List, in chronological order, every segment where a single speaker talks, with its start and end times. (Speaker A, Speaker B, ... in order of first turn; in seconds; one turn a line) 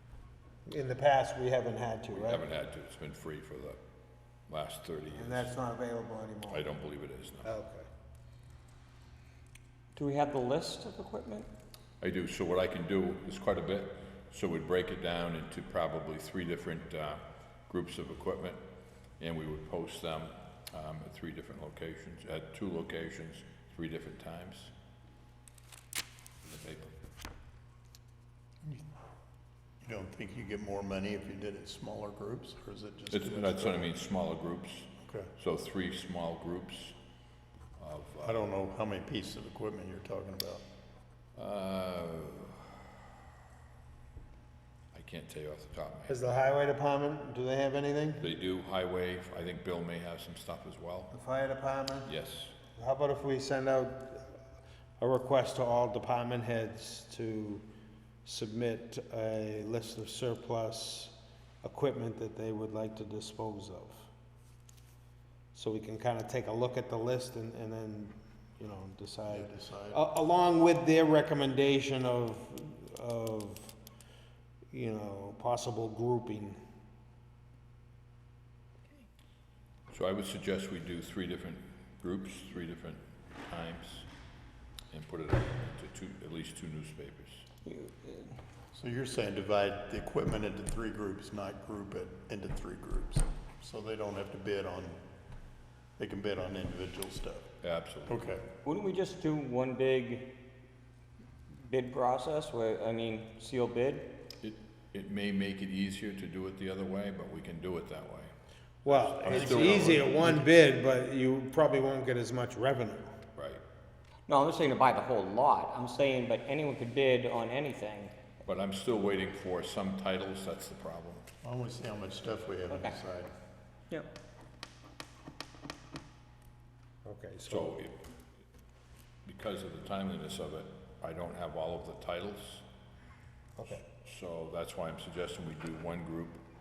Speaker A: 0.7-2.4
Speaker B: 2.1-3.8
Speaker B: 4.5-5.5
Speaker A: 5.1-6.6
Speaker B: 6.5-7.5
Speaker A: 7.4-7.9
Speaker C: 9.9-11.5
Speaker B: 12.0-18.6
Speaker B: 19.2-24.7
Speaker B: 26.4-26.9
Speaker D: 29.8-33.9
Speaker B: 33.1-37.0
Speaker D: 35.0-35.3
Speaker B: 37.8-38.4
Speaker D: 38.2-40.6
Speaker B: 41.4-42.7
Speaker B: 44.9-46.4
Speaker A: 46.1-48.2
Speaker B: 48.2-51.1
Speaker A: 51.1-52.1
Speaker B: 52.0-52.5
Speaker A: 52.8-54.3
Speaker A: 55.0-57.6
Speaker A: 58.2-64.1
Speaker A: 65.5-73.8
Speaker D: 69.3-70.0
Speaker A: 74.7-76.6
Speaker B: 79.9-84.1
Speaker B: 84.9-87.4
Speaker C: 87.6-88.3
Speaker D: 88.7-95.0
Speaker D: 96.0-97.5
Speaker B: 97.6-98.2
Speaker D: 98.0-98.5
Speaker C: 98.6-100.3
Speaker C: 101.6-104.1
Speaker B: 104.4-108.3
Speaker A: 108.8-113.1
Speaker B: 108.8-110.4
Speaker D: 109.3-110.4
Speaker B: 113.3-113.6
Speaker C: 114.3-118.1
Speaker B: 118.4-121.3
Speaker D: 121.4-123.3
Speaker C: 122.7-123.0
Speaker A: 127.0-127.8
Speaker B: 127.5-128.0
Speaker B: 129.2-132.6
Speaker A: 133.6-133.8
Speaker B: 133.7-136.4